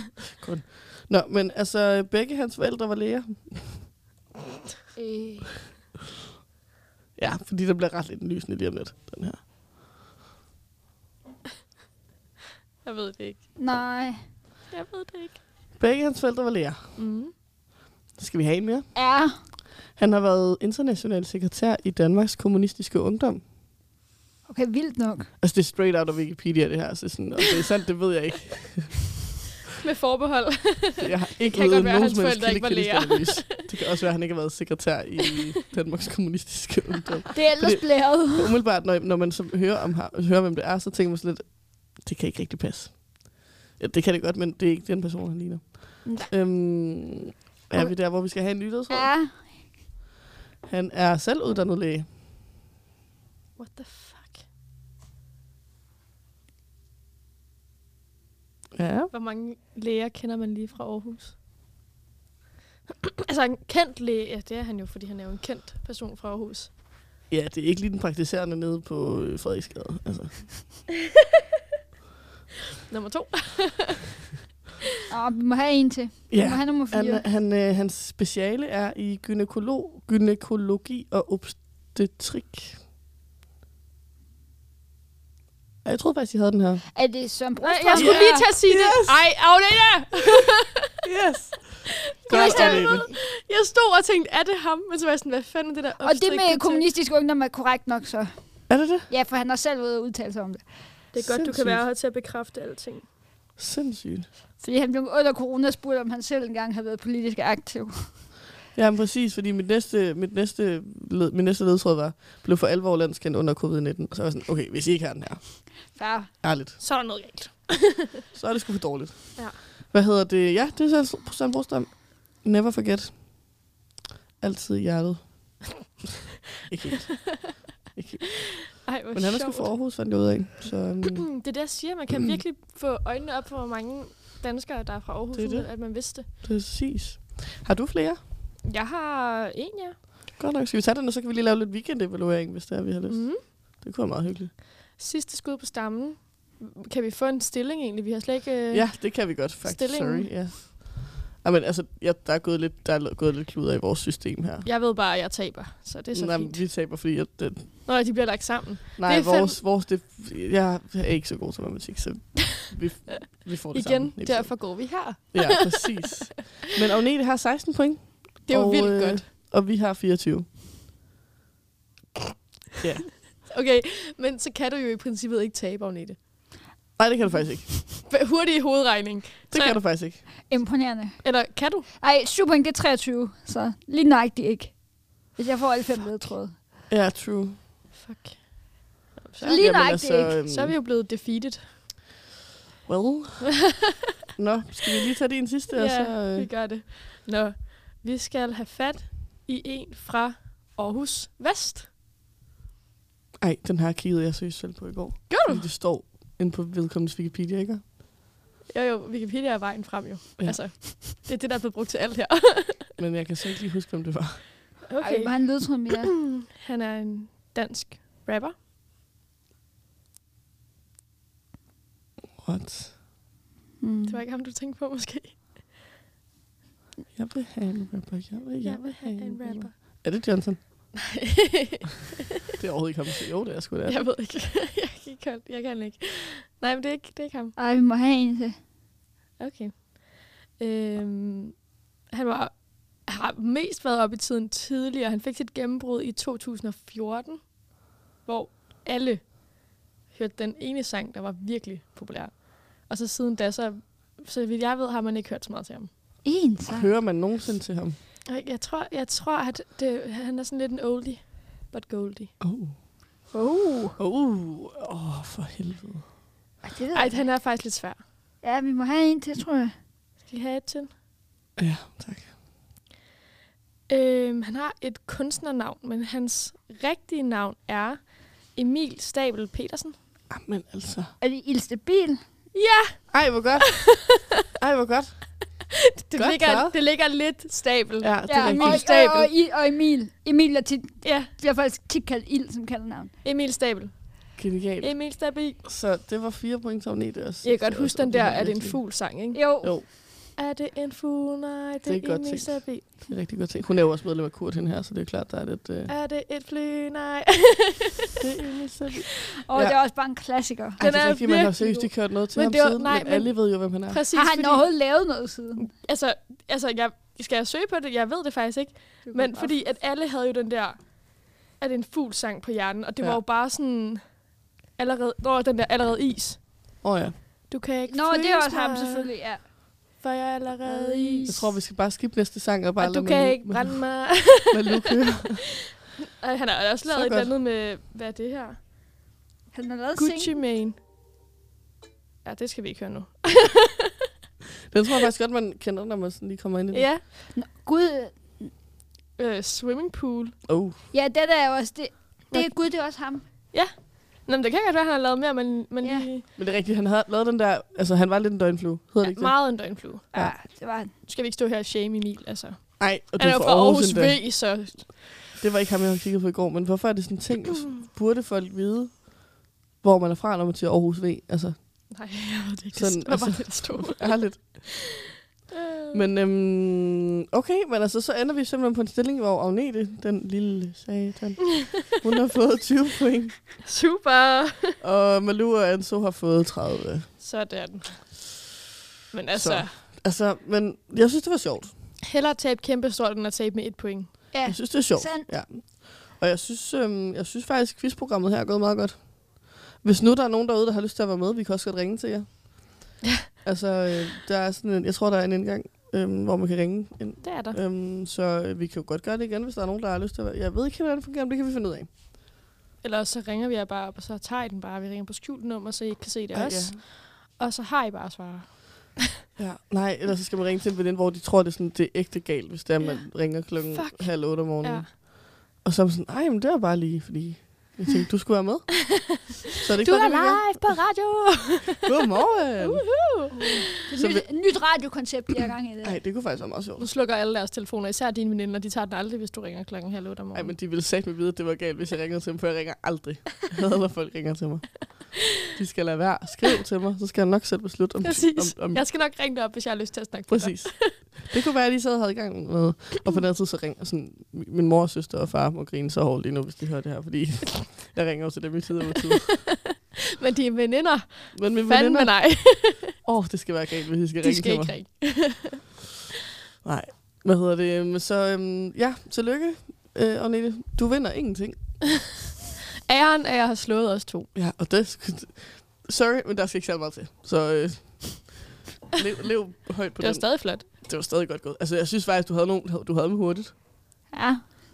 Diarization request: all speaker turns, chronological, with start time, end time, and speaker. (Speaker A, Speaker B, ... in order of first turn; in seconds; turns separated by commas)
Speaker A: 0.3-3.9, Speaker B: 5.0-5.7, Speaker A: 7.2-9.4, Speaker C: 12.8-13.4, Speaker B: 13.6-14.3, Speaker C: 14.7-15.4, Speaker A: 15.8-16.9, Speaker C: 17.0-17.3, Speaker A: 18.1-23.4, Speaker B: 18.9-19.4, Speaker B: 24.5-25.3, Speaker A: 25.4-29.1, Speaker C: 29.8-33.7, Speaker A: 31.0-49.1, Speaker B: 37.4-38.5, Speaker B: 46.0-46.3, Speaker B: 48.9-49.7, Speaker A: 50.6-52.1, Speaker C: 53.6-54.5, Speaker A: 58.7-59.1, Speaker C: 59.1-61.4, Speaker C: 63.2-66.7, Speaker A: 67.3-70.8, Speaker C: 72.9-74.1, Speaker B: 75.1-77.2, Speaker A: 76.3-82.8, Speaker A: 85.8-86.9, Speaker B: 87.0-88.5, Speaker C: 87.6-90.8, Speaker A: 88.0-89.3, Speaker A: 91.0-93.1, Speaker C: 92.2-96.9, Speaker B: 92.3-93.1, Speaker B: 96.0-101.0, Speaker A: 98.7-99.1, Speaker C: 101.1-103.1, Speaker A: 101.2-101.9, Speaker A: 103.6-104.3, Speaker B: 104.6-108.1, Speaker A: 108.8-115.9, Speaker B: 115.9-116.3, Speaker A: 116.4-116.8, Speaker C: 116.8-118.2, Speaker A: 118.3-123.5, Speaker A: 124.4-125.7, Speaker A: 126.7-131.4, Speaker C: 128.8-129.7, Speaker C: 131.3-136.3, Speaker A: 132.1-132.4, Speaker A: 135.3-138.2, Speaker C: 138.7-140.0, Speaker A: 140.4-144.6, Speaker C: 143.1-143.4, Speaker C: 145.0-150.3, Speaker A: 148.7-154.7, Speaker C: 154.6-156.6, Speaker A: 156.1-157.7, Speaker C: 157.9-159.6, Speaker A: 159.0-170.5, Speaker C: 163.4-165.9, Speaker C: 168.5-169.3, Speaker A: 172.8-173.1, Speaker C: 173.5-176.2, Speaker A: 177.0-177.7, Speaker C: 177.8-179.8, Speaker A: 179.5-180.2, Speaker B: 180.5-186.5, Speaker C: 181.2-181.9, Speaker A: 186.9-187.6, Speaker C: 187.9-189.7, Speaker B: 189.4-190.4, Speaker A: 189.5-190.8, Speaker C: 190.5-191.9, Speaker A: 192.9-193.6, Speaker A: 194.4-196.5, Speaker C: 195.7-201.9, Speaker A: 203.4-207.9, Speaker C: 205.3-205.7, Speaker C: 208.7-212.9, Speaker A: 210.4-210.9, Speaker A: 213.0-214.5, Speaker C: 214.9-218.6, Speaker B: 215.0-216.1, Speaker A: 222.4-223.0, Speaker B: 223.8-224.2, Speaker C: 224.1-225.4, Speaker A: 227.2-230.6, Speaker C: 228.6-229.7, Speaker C: 230.9-232.2, Speaker A: 232.6-234.1, Speaker C: 233.9-237.6, Speaker B: 237.6-238.6, Speaker C: 239.4-247.7, Speaker C: 248.2-255.9, Speaker B: 256.2-256.9, Speaker A: 256.7-258.0, Speaker C: 258.3-262.3, Speaker A: 262.4-262.8, Speaker B: 263.3-264.0, Speaker A: 264.0-266.1, Speaker B: 266.6-267.3, Speaker C: 266.9-268.0, Speaker B: 268.4-269.8, Speaker C: 270.3-270.9, Speaker A: 271.6-272.3, Speaker C: 273.9-280.0, Speaker A: 280.3-281.1, Speaker B: 281.2-282.2, Speaker C: 282.5-283.3, Speaker A: 283.1-284.0, Speaker A: 284.6-285.6, Speaker C: 285.9-289.3, Speaker A: 286.1-286.8, Speaker A: 288.0-288.9, Speaker B: 288.3-293.1, Speaker C: 291.0-291.3, Speaker C: 293.2-295.6, Speaker A: 294.4-299.0, Speaker C: 297.4-299.6, Speaker B: 299.3-299.8, Speaker A: 299.6-299.9, Speaker C: 300.4-303.0, Speaker A: 301.9-305.9, Speaker C: 305.9-308.2, Speaker A: 308.2-309.8, Speaker B: 309.5-310.8, Speaker A: 310.8-314.0, Speaker C: 310.8-314.9, Speaker B: 314.1-315.7, Speaker C: 315.6-326.6, Speaker A: 319.1-319.5, Speaker A: 326.8-327.2, Speaker C: 327.5-329.1, Speaker B: 327.9-329.4, Speaker C: 330.0-331.4, Speaker B: 330.6-331.4, Speaker A: 331.3-335.5, Speaker C: 332.8-334.7, Speaker C: 336.2-338.6, Speaker A: 336.9-337.3, Speaker B: 339.5-340.4, Speaker C: 340.0-340.8, Speaker C: 342.2-343.9, Speaker A: 344.7-346.9, Speaker C: 346.7-347.1, Speaker B: 347.3-348.5, Speaker C: 349.2-350.4, Speaker A: 350.5-350.8, Speaker B: 350.9-353.2, Speaker C: 352.3-352.6, Speaker C: 353.5-356.2, Speaker A: 356.4-359.4, Speaker C: 359.0-360.1, Speaker B: 360.1-360.9, Speaker C: 361.0-365.2, Speaker A: 362.8-364.8, Speaker A: 365.3-372.0, Speaker C: 371.9-374.7, Speaker A: 372.7-374.6, Speaker C: 375.5-376.1, Speaker A: 375.9-383.6, Speaker C: 383.6-384.8, Speaker A: 384.8-387.1, Speaker C: 387.2-388.2, Speaker C: 389.1-389.8, Speaker A: 389.3-391.7, Speaker C: 392.1-394.1, Speaker B: 394.3-395.3, Speaker A: 394.4-411.9, Speaker C: 407.2-407.6, Speaker C: 412.8-419.0, Speaker A: 416.3-416.8, Speaker A: 419.4-430.6, Speaker C: 422.8-424.9, Speaker C: 429.8-431.9, Speaker A: 431.8-432.9, Speaker C: 432.6-433.6, Speaker B: 433.4-436.0, Speaker A: 433.9-434.8, Speaker A: 435.8-436.9, Speaker C: 436.8-440.6, Speaker A: 440.3-448.9, Speaker C: 448.0-451.2, Speaker A: 450.3-459.5, Speaker C: 459.5-462.9, Speaker A: 461.3-464.9, Speaker C: 464.2-465.6, Speaker A: 466.6-471.9, Speaker C: 472.9-474.3, Speaker A: 474.4-483.6, Speaker C: 480.0-480.7, Speaker B: 484.1-484.5